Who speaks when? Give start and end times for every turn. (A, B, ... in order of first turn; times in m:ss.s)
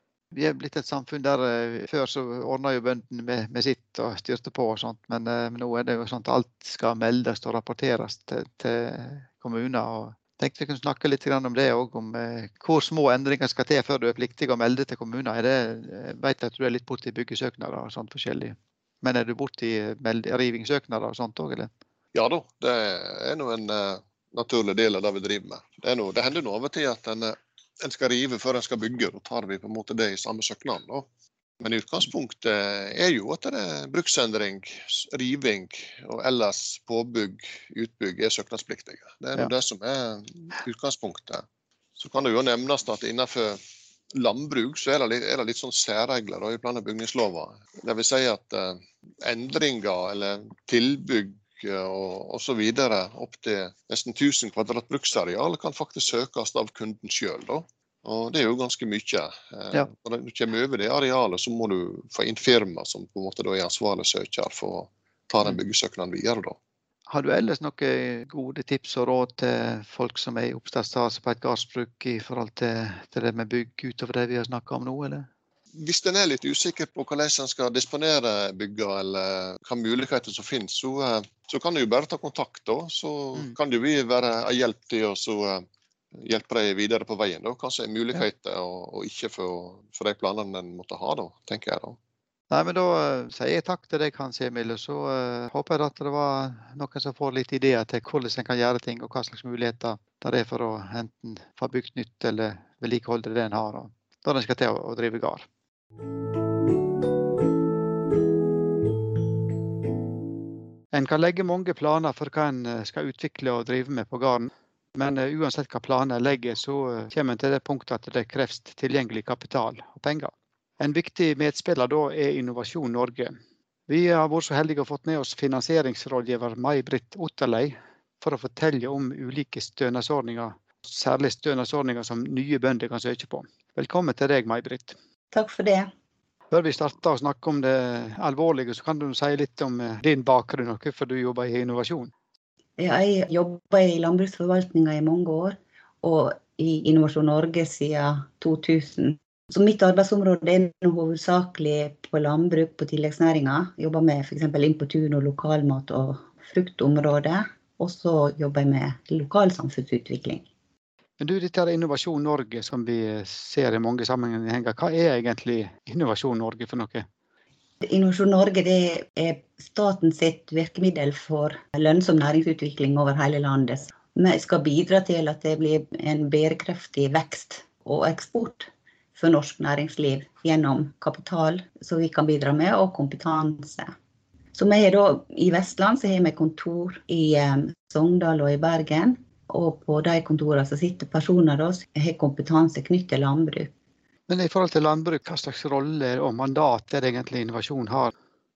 0:00.3-0:21.7 A
0:22.1-0:31.1 B
0:31.6-0:41.4 B
0:42.0-0:43.6 B
0:44.1-1:06.6 B
1:07.1-1:15.3 A
1:15.7-1:25.6 B
1:26.2-1:32.0 B
1:32.5-1:45.4 A
1:50.9-2:03.4 A
2:03.9-2:15.0 A
2:15.3-2:15.9 C
2:16.5-2:22.1 A
2:22.8-2:40.4 C
2:41.2-2:47.0 A
2:47.8-3:03.9 C
3:04.5-3:13.7 C
3:14.3-3:18.1 A